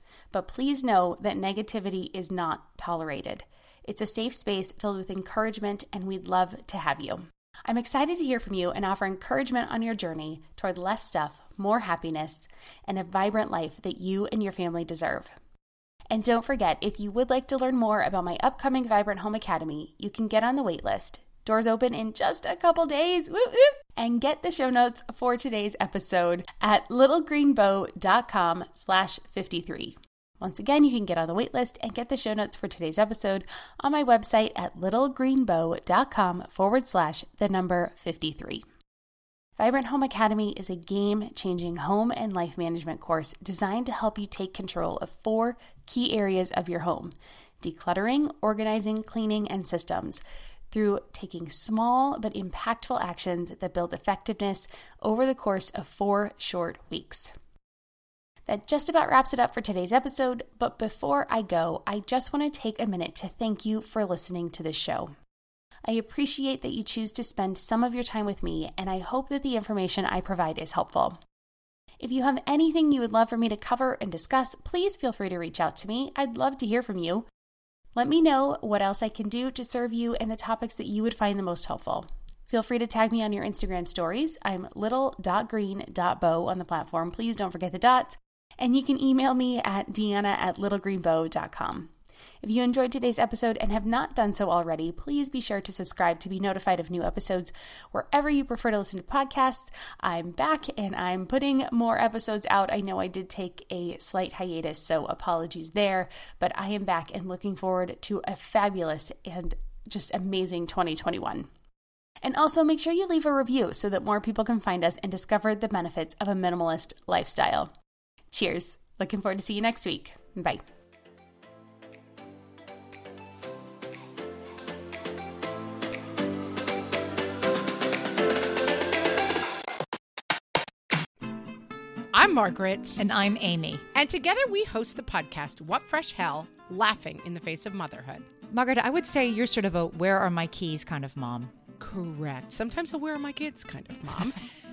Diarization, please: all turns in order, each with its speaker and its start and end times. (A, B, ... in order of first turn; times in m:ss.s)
0:00.3-0:15.3 A
0:16.1-0:38.6 A
0:39.6-0:57.3 A
0:58.5-1:05.1 A
1:05.9-1:11.2 A
1:12.0-1:17.3 A
1:18.0-1:31.9 A
1:32.4-1:51.5 A
1:52.2-1:57.7 A
1:58.3-2:00.6 A
2:12.1-2:12.8 B
2:13.0-2:13.8 C
2:14.0-2:18.2 B
2:18.5-2:21.5 C
2:21.8-2:24.1 B